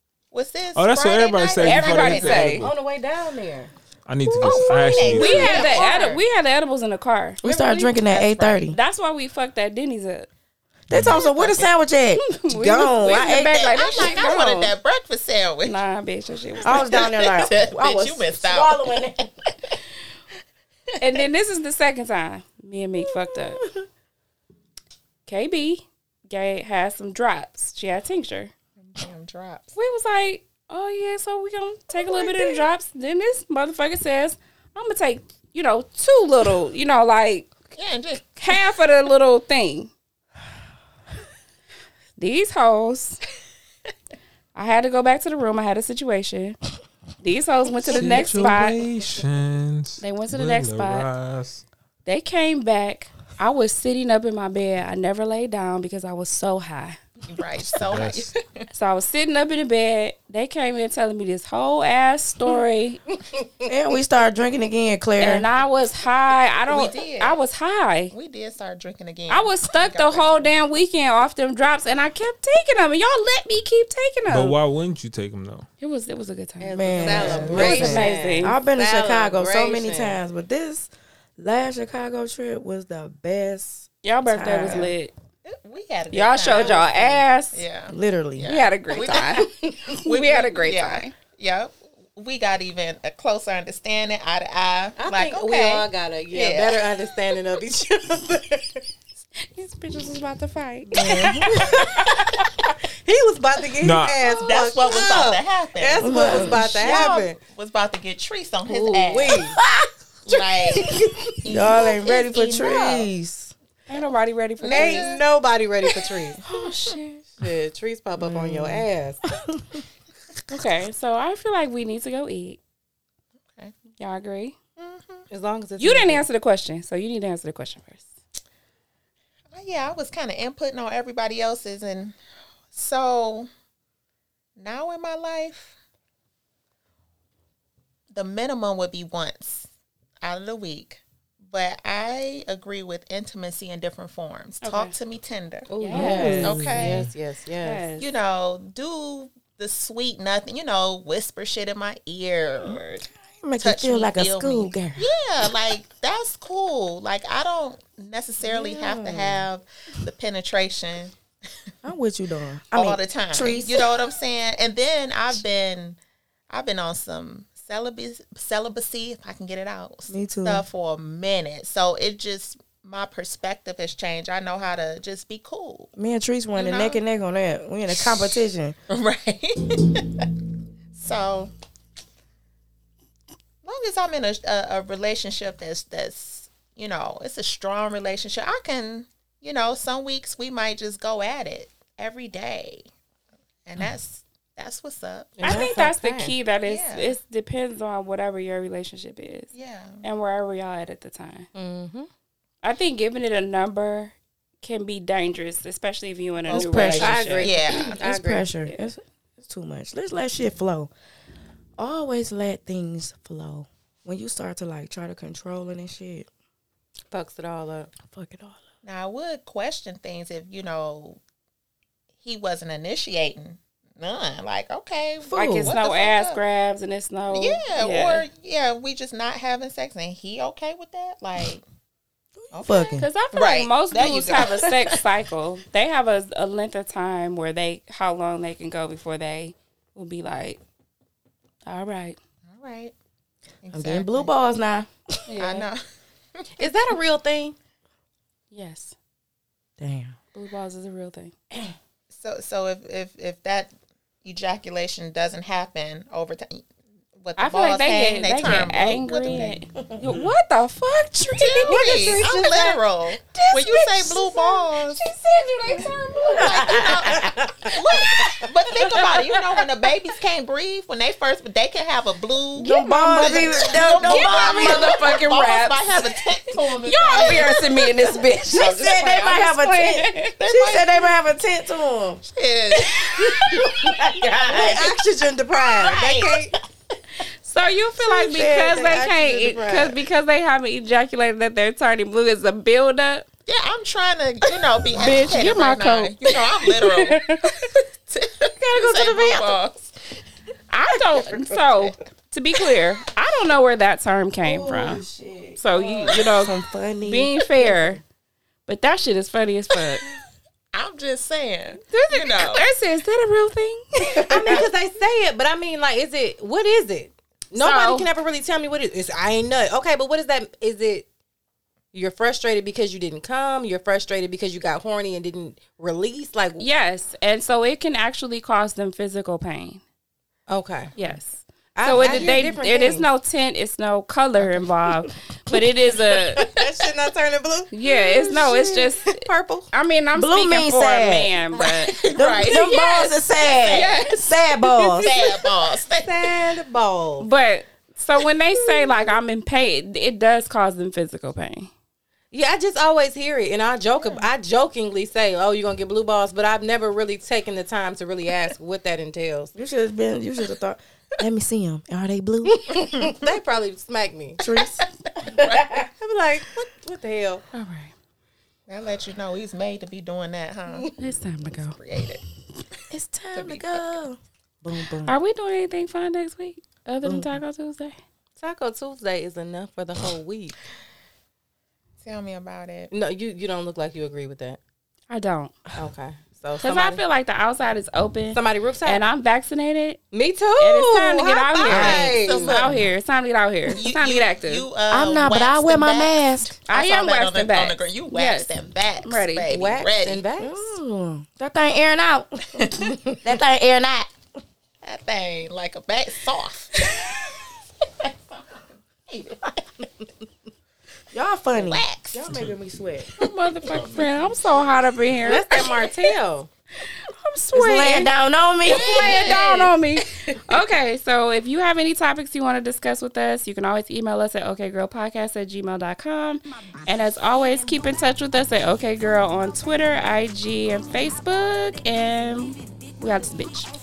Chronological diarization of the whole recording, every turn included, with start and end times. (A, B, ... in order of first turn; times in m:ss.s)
0:00.3-0:02.7 A
0:00.8-0:02.7 B
0:01.6-0:02.6 C
0:01.8-0:03.7 D
0:04.0-0:05.6 B
0:04.3-0:06.2 A
0:05.1-0:07.4 C
0:05.3-0:06.2 D
0:07.4-0:08.8 E
0:07.4-0:08.7 D
0:08.7-0:10.3 C
0:10.9-0:13.8 E
0:10.9-0:11.2 B
0:11.2-0:11.5 A
0:12.2-0:14.7 C
0:13.2-0:15.8 A
0:13.8-0:14.2 D
0:15.6-0:17.1 C
0:16.6-0:19.3 E
0:16.7-0:19.0 A
0:21.0-0:23.6 C
0:23.3-0:23.7 E
0:25.3-0:28.5 C
0:28.8-0:29.7 A
0:29.7-0:37.5 C
0:37.7-0:38.4 A
0:38.4-0:39.9 C
0:42.2-0:43.2 C
0:44.6-0:46.6 C
0:47.2-0:48.8 C
0:47.9-0:51.6 B
0:50.0-0:51.1 C
0:52.0-0:57.0 C
0:57.2-0:58.7 A
0:57.6-0:58.3 B
0:58.7-1:03.0 C
1:03.7-1:05.5 E
1:05.2-1:08.1 C
1:06.7-1:07.4 A
1:08.1-1:10.5 A
1:09.3-1:14.6 C
1:14.3-1:15.7 B
1:15.8-1:18.6 C
1:16.6-1:20.2 D
1:16.7-1:24.9 E
1:17.1-1:17.9 A
1:24.0-1:25.1 C
1:25.4-1:37.0 A
1:26.1-1:27.6 C
1:27.9-1:28.5 E
1:28.4-1:31.1 C
1:29.3-1:29.7 D
1:35.0-1:38.8 D
1:39.4-1:42.1 C
1:40.9-1:41.7 E
1:41.4-1:47.4 D
1:43.8-1:44.2 B
1:44.3-1:49.4 A
1:46.0-1:46.8 E
1:48.7-1:49.6 D
1:49.4-1:49.9 E
1:50.3-1:53.1 A
1:50.3-1:51.4 D
1:51.4-1:53.5 E
1:53.9-1:55.1 C
1:54.6-1:55.3 A
1:54.6-1:56.4 D
1:56.4-1:57.2 E
1:56.5-1:57.0 C
1:57.4-1:59.2 D
1:58.2-1:59.8 E
2:00.5-2:02.6 C
2:04.0-2:04.6 C
2:04.8-2:05.3 A
2:05.3-2:06.2 D
2:05.8-2:08.1 C
2:09.5-2:12.2 A
2:12.7-2:13.5 A
2:14.6-2:15.7 A
2:18.1-2:19.7 A
2:20.2-2:25.7 A
2:24.6-2:25.0 C
2:25.7-2:27.8 D
2:25.8-2:26.6 C
2:25.9-2:27.1 E
2:26.4-2:27.0 A
2:27.6-2:28.1 C
2:28.0-2:33.0 A
2:33.3-2:35.1 E
2:33.6-2:41.1 A
2:38.4-2:39.5 E
2:41.8-2:43.9 E
2:42.7-2:46.0 A
2:46.5-2:55.9 A
2:50.1-2:50.6 E
2:56.0-2:58.8 E
2:56.5-2:57.0 A
2:58.9-3:00.3 A
3:00.9-3:01.5 A
3:03.6-3:12.9 A
3:13.6-3:15.6 A
3:15.4-3:16.3 D
3:15.4-3:19.5 C
3:16.6-3:17.2 A
3:19.5-3:20.0 A
3:20.0-3:21.5 C
3:21.5-3:22.1 D
3:22.6-3:27.8 C
3:26.5-3:28.0 A
3:26.5-3:27.4 E
3:26.6-3:28.5 D
3:28.0-3:30.9 E
3:28.6-3:28.9 C
3:31.8-3:36.3 E
3:37.1-3:37.9 D
3:38.0-3:38.6 E
3:38.8-3:41.2 A
3:42.2-3:46.4 A
3:45.2-3:45.7 E
3:45.4-3:48.3 C
3:47.3-3:51.6 A
3:52.4-3:53.1 E
3:52.5-3:55.0 A
3:53.0-4:00.6 C
4:01.7-4:02.2 C
4:02.5-4:02.9 A
4:03.6-4:04.3 A
4:03.7-4:05.3 E
4:05.3-4:05.7 C
4:05.4-4:05.8 A
4:06.4-4:06.7 A
4:06.6-4:07.6 D
4:08.5-4:09.0 C
4:09.8-4:10.2 E
4:10.3-4:11.3 C
4:12.1-4:16.7 A
4:17.2-4:19.7 A
4:17.4-4:21.8 C
4:21.4-4:25.1 A
4:21.4-4:22.8 D
4:23.3-4:27.2 C
4:26.2-4:38.1 A
4:26.2-4:27.4 E
4:27.2-4:27.4 D
4:32.6-4:35.1 E
4:32.6-4:36.2 C
4:36.8-4:40.4 C
4:38.5-4:42.2 E
4:40.4-4:41.1 A
4:42.2-4:43.6 A
4:43.4-4:45.0 E
4:44.5-4:46.5 D
4:45.7-4:46.6 A
4:47.4-4:53.3 C
4:48.1-4:49.0 E
4:48.3-4:50.0 D
4:53.5-4:59.9 A
4:55.0-4:56.1 C
4:57.0-4:57.3 D
4:58.6-4:59.6 D
5:00.7-5:05.1 C
5:01.3-5:01.8 E
5:04.4-5:07.7 E
5:05.6-5:08.0 C
5:08.7-5:10.0 C
5:10.7-5:12.7 A
5:11.9-5:14.6 C
5:14.2-5:14.6 E
5:14.3-5:21.1 D
5:17.6-5:18.1 C
5:21.9-5:26.7 D
5:26.6-5:29.8 C
5:30.5-5:31.0 D
5:31.0-5:36.4 C
5:31.8-5:33.1 D
5:31.9-5:32.4 E
5:36.4-5:39.7 D
5:37.7-5:42.0 C
5:40.1-5:41.3 E
5:41.6-5:44.2 A
5:42.1-5:45.1 E
5:42.7-5:43.1 C
5:43.7-5:45.0 C
5:44.9-5:46.5 A
5:46.0-5:47.3 D
5:47.2-5:51.7 C
5:52.3-5:59.5 D
5:59.6-6:03.1 E
6:02.6-6:04.4 D
6:04.4-6:04.8 E
6:04.4-6:05.8 A
6:05.2-6:07.4 D
6:07.5-6:07.9 C
6:08.7-6:10.9 A
6:11.0-6:11.8 C
6:11.4-6:12.2 A
6:12.9-6:15.2 E
6:15.1-6:18.0 C
6:17.0-6:17.4 E
6:18.4-6:20.6 D
6:22.0-6:22.9 A
6:22.9-6:24.6 D
6:25.1-6:25.6 C
6:25.7-6:27.0 D
6:26.6-6:30.0 C
6:28.3-6:29.0 D
6:30.1-6:32.6 D
6:30.6-6:34.7 C
6:31.6-6:32.8 A
6:33.7-6:40.2 A
6:34.9-6:36.6 E
6:36.7-6:38.5 C
6:39.0-6:39.5 C
6:39.5-6:40.7 D
6:40.4-6:44.1 E
6:42.6-6:43.0 A
6:44.8-6:46.9 A
6:48.0-6:49.8 A
6:51.1-6:53.1 E
6:51.5-6:52.3 A
6:53.2-6:54.0 A
6:53.2-6:55.7 C
6:55.2-6:56.5 D
6:57.2-6:59.4 E
6:57.5-6:58.1 C
6:58.6-7:13.7 C
6:58.6-6:59.7 A